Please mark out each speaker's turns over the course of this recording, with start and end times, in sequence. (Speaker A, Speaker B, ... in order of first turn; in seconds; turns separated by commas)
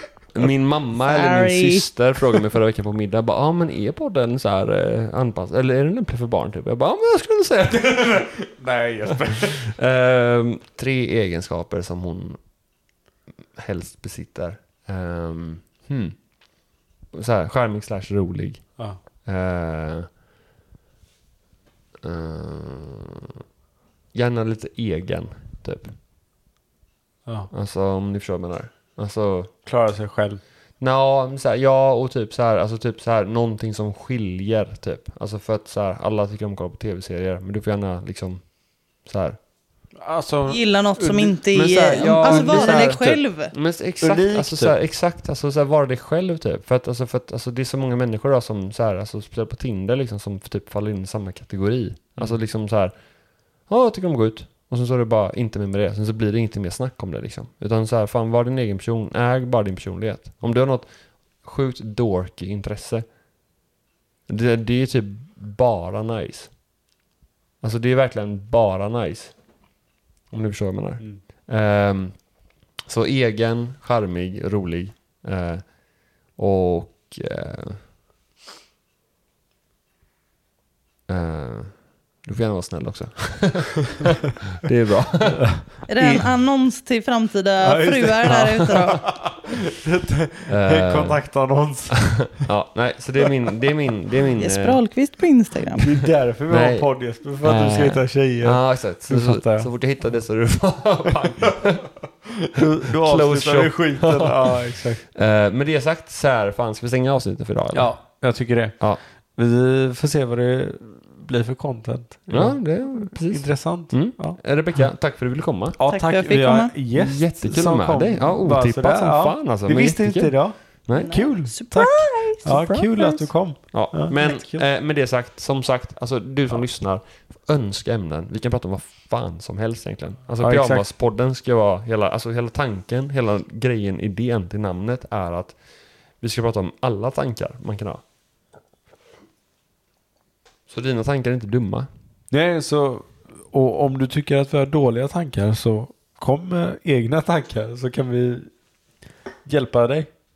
Speaker A: 0.3-8.3, Speaker B: 1.0-1.9, Speaker C: 7.8-9.7, Speaker A: 9.5-12.4, Speaker A: 13.5-16.2, Speaker A: 17.1-18.7, Speaker A: 19.2-20.1, Speaker A: 22.0-23.3, Speaker A: 24.1-25.9, Speaker A: 27.5-29.5, Speaker C: 29.6-30.4, Speaker A: 30.8-39.4, Speaker C: 40.0-43.0, Speaker B: 40.5-43.5, Speaker A: 41.5-52.9, Speaker C: 44.0-44.8, Speaker A: 53.6-63.0, Speaker A: 64.3-66.5, Speaker A: 67.6-69.3, Speaker A: 70.3-72.3, Speaker A: 72.8-75.7, Speaker A: 76.3-77.8, Speaker A: 81.1-85.5, Speaker C: 85.4-86.2, Speaker B: 85.9-89.0, Speaker C: 87.6-92.4, Speaker A: 88.3-88.9, Speaker A: 90.5-91.2, Speaker A: 92.3-94.8, Speaker B: 94.4-95.9, Speaker C: 95.7-99.7, Speaker A: 96.5-96.9, Speaker A: 97.4-101.9, Speaker C: 102.5-105.0, Speaker A: 102.9-107.9, Speaker C: 107.7-114.4, Speaker A: 112.3-115.8, Speaker C: 115.8-124.6, Speaker B: 115.9-116.7, Speaker A: 117.0-121.1, Speaker B: 121.0-123.3, Speaker A: 123.7-135.6, Speaker C: 130.4-130.9, Speaker A: 136.2-138.0, Speaker A: 140.7-141.9, Speaker C: 142.3-148.5, Speaker C: 149.4-150.1